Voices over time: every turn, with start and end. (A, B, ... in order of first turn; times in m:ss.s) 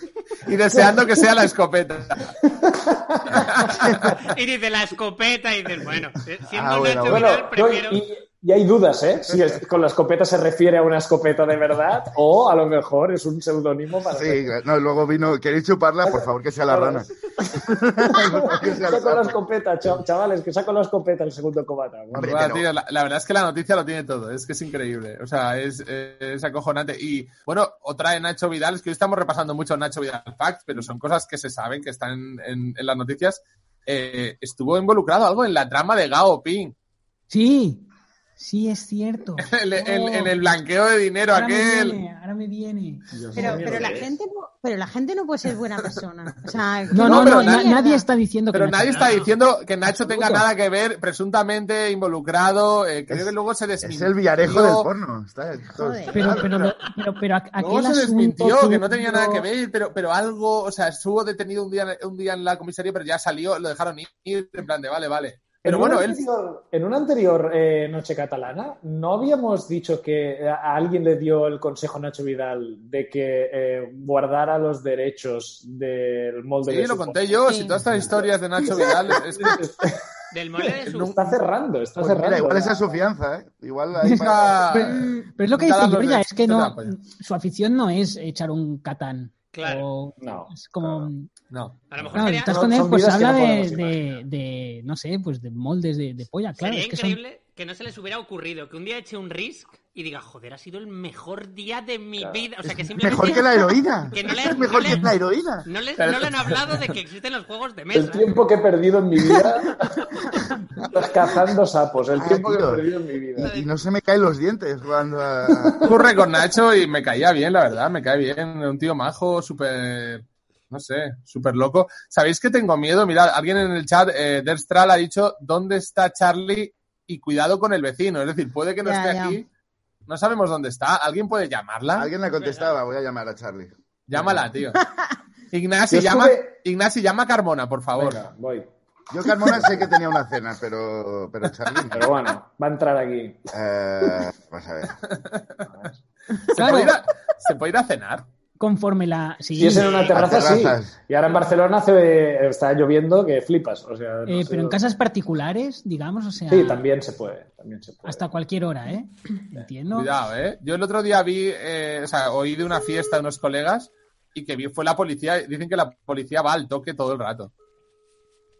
0:00.5-0:02.3 A
0:00.7-0:01.2 B
0:02.4-0:03.5 B
0:03.3-0:04.3 A
0:03.9-0:08.0 C
0:06.5-0:07.4 D
0:07.1-0:14.5 B
0:14.1-0:19.4 D
0:16.0-0:22.4 B
0:22.2-0:22.6 D
0:22.2-0:36.7 A
0:37.3-0:37.8 E
0:38.4-0:40.4 E
0:39.4-0:42.0 A
0:41.3-0:43.8 E
0:43.1-0:44.1 B
0:43.4-0:48.1 F
0:46.9-0:49.2 E
0:46.9-0:47.8 A
0:48.5-0:54.9 A
0:48.9-0:49.3 C
0:50.0-0:50.4 E
0:53.8-0:56.5 D
0:55.7-0:56.5 F
0:56.1-0:59.3 E
0:57.6-1:06.2 A
0:59.1-0:59.4 B
1:05.6-1:17.4 B
1:16.7-1:19.6 A
1:17.4-1:17.8 F
1:18.0-1:20.1 B
1:20.3-1:21.2 C
1:20.7-1:22.8 B
1:22.0-1:24.7 D
1:24.0-1:31.3 E
1:24.1-1:27.0 A
1:29.5-1:29.9 C
1:30.2-1:31.1 B
1:31.5-1:31.8 A
1:31.9-1:32.6 C
1:32.1-1:37.2 E
1:32.5-1:34.0 B
1:36.6-1:48.4 C
1:42.2-1:42.5 B
1:42.6-1:45.7 D
1:46.0-1:46.5 A
1:47.9-1:50.1 B
1:50.9-1:53.5 B
1:52.2-1:52.8 D
1:53.4-1:56.0 D
1:53.4-1:53.7 C
1:55.8-2:09.5 A
2:08.8-2:09.4 F
2:10.1-2:12.1 A
2:12.0-2:14.3 D
2:12.3-2:12.8 C
2:14.1-2:14.8 A
2:15.5-2:18.2 A
2:15.9-2:16.6 B
2:18.0-2:18.7 B
2:19.1-2:22.1 D
2:21.9-2:23.4 B
2:23.5-2:25.0 D
2:25.0-2:25.9 A
2:25.7-2:26.0 B
2:26.3-2:27.0 E
2:26.5-2:28.2 A
2:28.6-2:29.9 E
2:29.6-2:34.8 B
2:29.8-2:30.2 C
2:30.1-2:30.9 D
2:34.3-2:36.8 E
2:36.5-2:38.2 B
2:38.0-2:40.1 E
2:39.9-2:47.5 A